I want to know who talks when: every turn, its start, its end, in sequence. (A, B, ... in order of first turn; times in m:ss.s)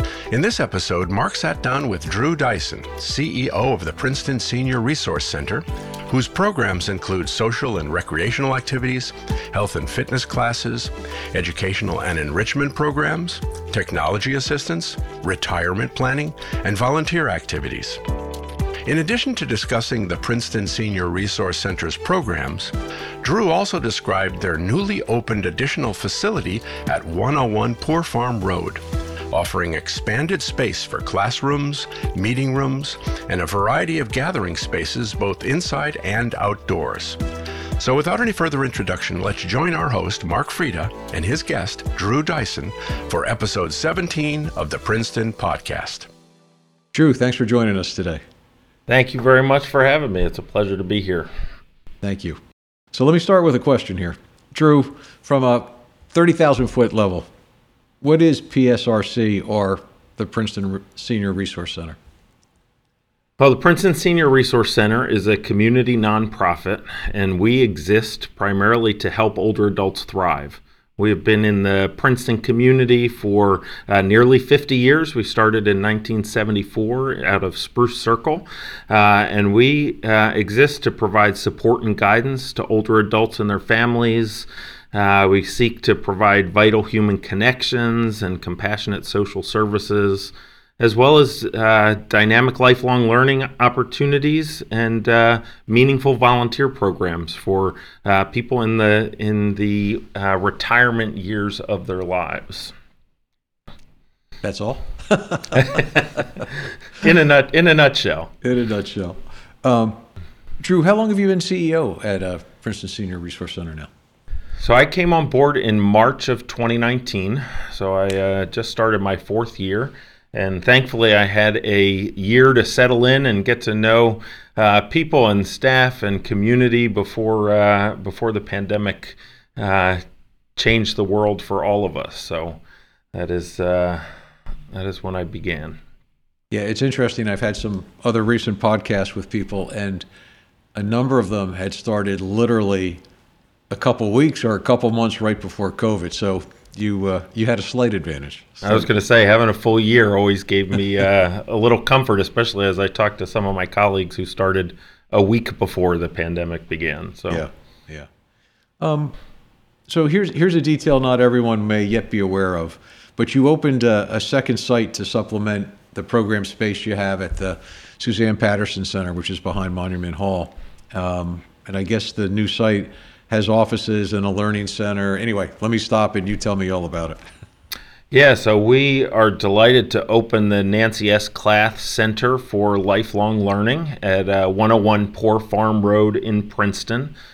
0:00.3-0:18.0 A
0:18.8-0:37.2 A
0:37.8-0:46.1 A
0:46.9-0:48.2 B
0:48.9-0:51.3 C
0:52.0-0:52.4 B
0:52.9-0:57.3 B
0:58.0-1:02.0 B
1:03.4-1:42.7 C
1:44.4-1:46.0 B
1:45.5-1:46.4 C
1:46.9-1:48.3 C
1:48.4-1:50.0 B
1:50.6-1:53.9 B
1:54.6-2:10.0 C
2:10.6-2:12.6 C
2:13.1-2:14.0 C
2:14.7-2:15.8 C
2:16.5-2:20.0 B
2:20.7-2:23.0 B
2:23.7-2:28.9 B
2:28.6-2:37.5 C
2:37.3-2:38.1 B
2:38.8-2:39.1 B
2:39.9-2:57.2 B
2:58.1-3:07.1 C